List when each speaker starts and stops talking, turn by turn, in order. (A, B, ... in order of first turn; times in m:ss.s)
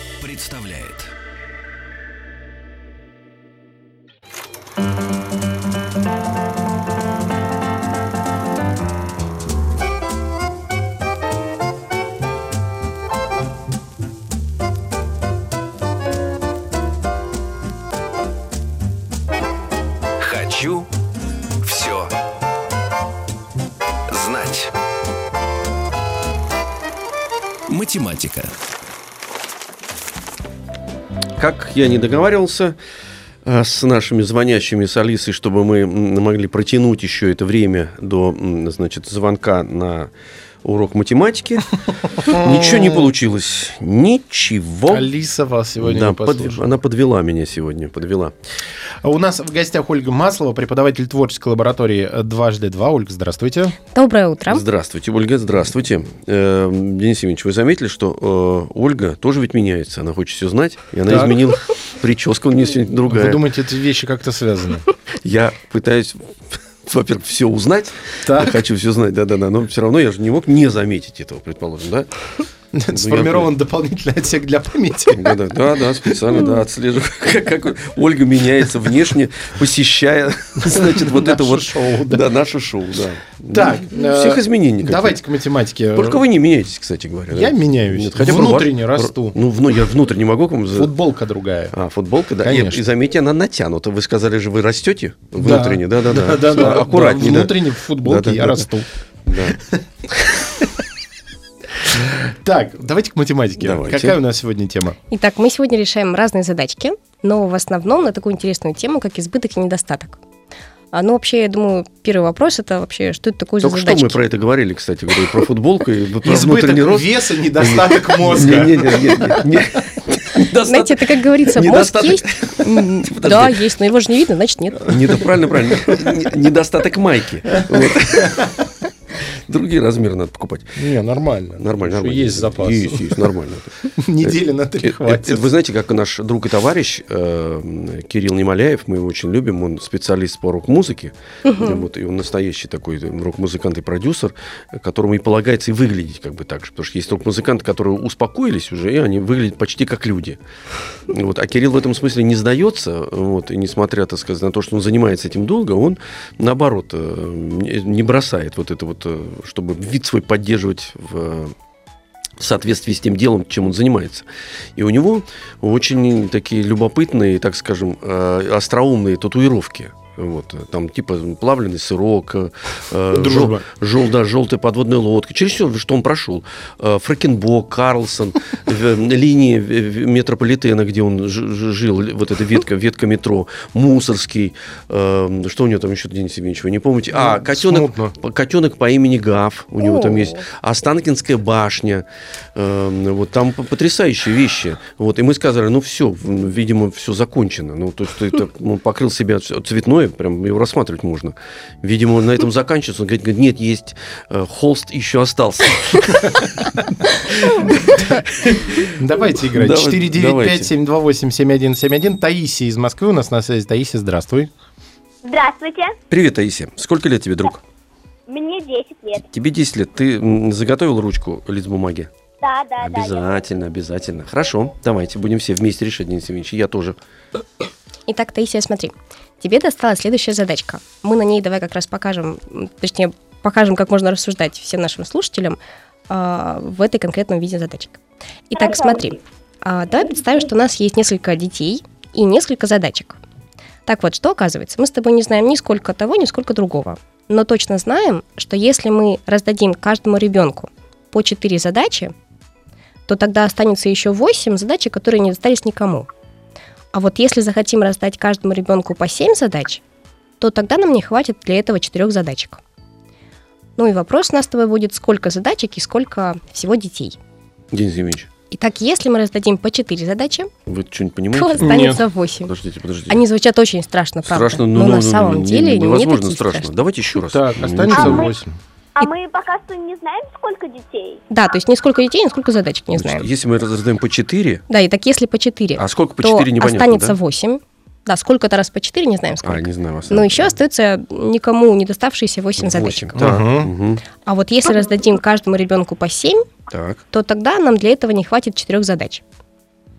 0:00.2-0:01.1 A
0:20.2-0:20.9 A
0:21.6-0:22.1 A
0:24.1-0:24.7 A
0:27.7-0:28.6 A
0:31.4-0:32.8 B
0:33.4-0:40.1 B
0:40.6-0:41.7 B
0:42.2-0:45.1 B
0:42.2-0:43.1 C
0:44.9-0:46.7 C
0:45.8-0:48.3 B
0:49.0-0:53.8 C
0:53.9-0:54.6 D
0:54.5-1:03.4 B
1:01.1-1:01.4 C
1:03.1-1:04.9 C
1:05.2-1:12.1 B
1:08.2-1:08.6 C
1:12.7-1:15.4 C
1:12.9-1:13.5 B
1:15.1-1:25.2 B
1:16.1-1:16.4 C
1:20.6-1:22.3 C
1:23.5-1:26.2 C
1:25.9-1:30.9 B
1:27.3-1:29.4 C
1:30.8-1:31.8 C
1:31.7-1:38.7 B
1:32.4-1:32.8 C
1:35.4-1:38.9 C
1:39.3-1:39.6 B
1:41.9-1:45.0 C
1:43.6-1:44.2 B
1:45.1-1:50.2 D
1:50.9-1:54.2 D
1:53.6-2:03.7 B
1:56.2-1:59.7 C
2:00.6-2:05.0 D
2:04.8-2:08.5 B
2:07.5-2:08.7 C
2:09.2-2:10.8 B
2:10.8-2:13.3 C
2:11.6-2:30.4 B
2:13.9-2:15.5 C
2:21.5-2:21.8 D
2:31.1-2:41.5 B
2:42.4-3:12.0 B
2:53.1-2:53.6 C
3:07.1-3:08.2 C
3:09.8-3:10.4 D
3:12.6-3:26.5 B
3:27.4-3:29.0 B
3:29.0-3:34.5 C
3:29.5-3:30.7 B
3:35.2-3:36.0 E
3:36.1-3:37.6 B
3:38.3-3:39.2 E
3:39.2-3:42.1 B
3:42.4-3:43.3 E
3:42.8-3:47.0 B
3:48.1-4:03.2 D
3:58.6-3:59.1 E
4:03.9-4:12.1 D
4:13.1-4:16.1 D
4:16.9-4:19.8 D
4:20.4-4:22.6 D
4:23.8-4:27.2 D
4:27.7-4:28.3 B
4:28.5-4:30.5 D
4:30.7-4:33.2 B
4:31.3-4:32.5 D
4:31.6-4:32.0 C
4:33.1-4:36.7 D
4:34.2-4:38.3 B
4:37.2-4:38.6 C
4:37.9-4:38.3 E
4:39.0-4:41.2 E
4:41.3-4:43.2 D
4:43.0-4:44.6 B
4:44.7-4:53.2 D
4:45.8-4:47.2 B
4:49.4-4:50.6 B
4:52.6-4:54.0 B
4:53.2-4:53.7 C
4:54.2-4:56.5 D
4:56.7-4:57.0 B
4:57.1-4:59.2 D